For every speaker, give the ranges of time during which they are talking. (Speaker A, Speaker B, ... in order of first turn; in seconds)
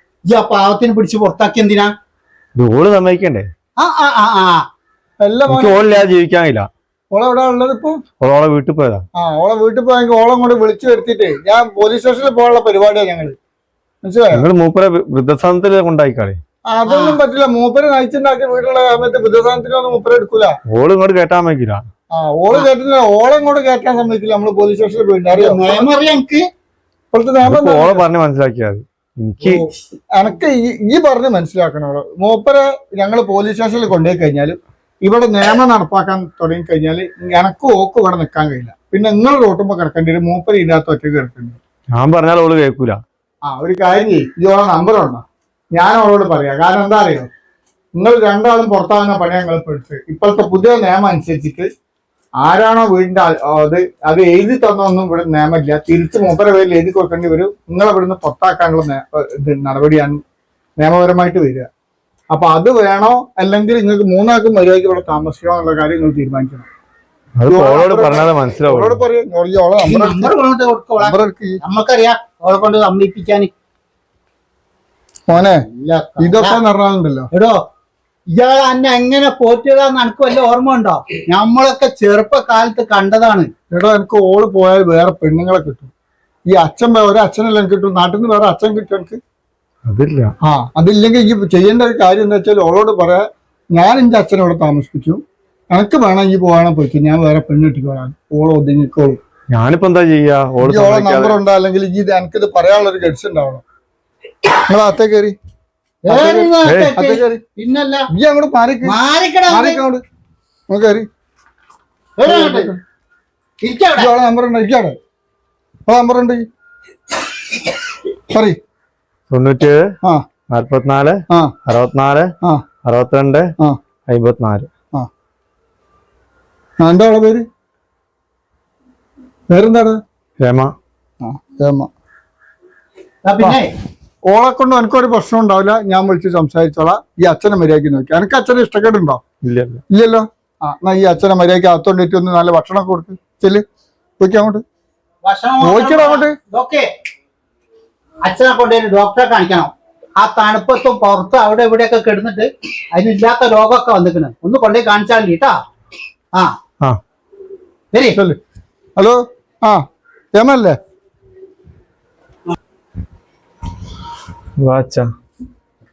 Speaker A: 0.3-1.9, 3.8-4.6, 16.9-17.2, 25.3-26.5, 69.8-73.5, 75.4-76.6, 77.3-77.6, 78.3-83.5, 106.1-108.1, 108.8-109.8, 112.2-112.7, 113.6-114.1, 133.3-133.7, 145.2-146.9, 148.2-155.6, 157.9-158.2
Speaker B: 2.6-3.5, 5.5-6.7, 8.2-9.0, 14.3-16.4, 20.7-21.9, 27.4-29.7, 42.0-43.0, 67.4-69.0, 89.9-90.3, 99.5-101.4, 106.7-107.0, 119.3-119.9, 120.5-122.3, 122.8-123.5, 124.1-124.7, 130.4-130.7, 139.4-139.8, 164.6-165.1
Speaker C: 5.2-5.9, 7.1-8.0, 9.2-13.4, 14.0-14.5, 16.7-20.6, 22.1-25.9, 27.1-28.1, 30.1-41.6, 43.5-47.3, 48.0-51.7, 52.4-60.2, 60.8-61.7, 62.3-66.7, 67.5-70.3, 71.0-71.6, 75.3-75.7, 76.2-77.3, 83.7-85.9, 86.5-89.2, 90.4-99.2, 100.6-103.6, 104.7-105.4, 106.1-107.4, 108.1-109.0, 109.5-110.0, 110.7-111.1, 112.2-112.8, 114.0-115.0, 115.9-116.5, 118.3-118.6, 121.3-121.5, 126.8-127.5, 129.5-130.0, 131.2-131.9, 134.3-139.2, 139.9-143.7, 144.2-144.6, 145.6-146.4, 158.1-158.4, 159.0-160.8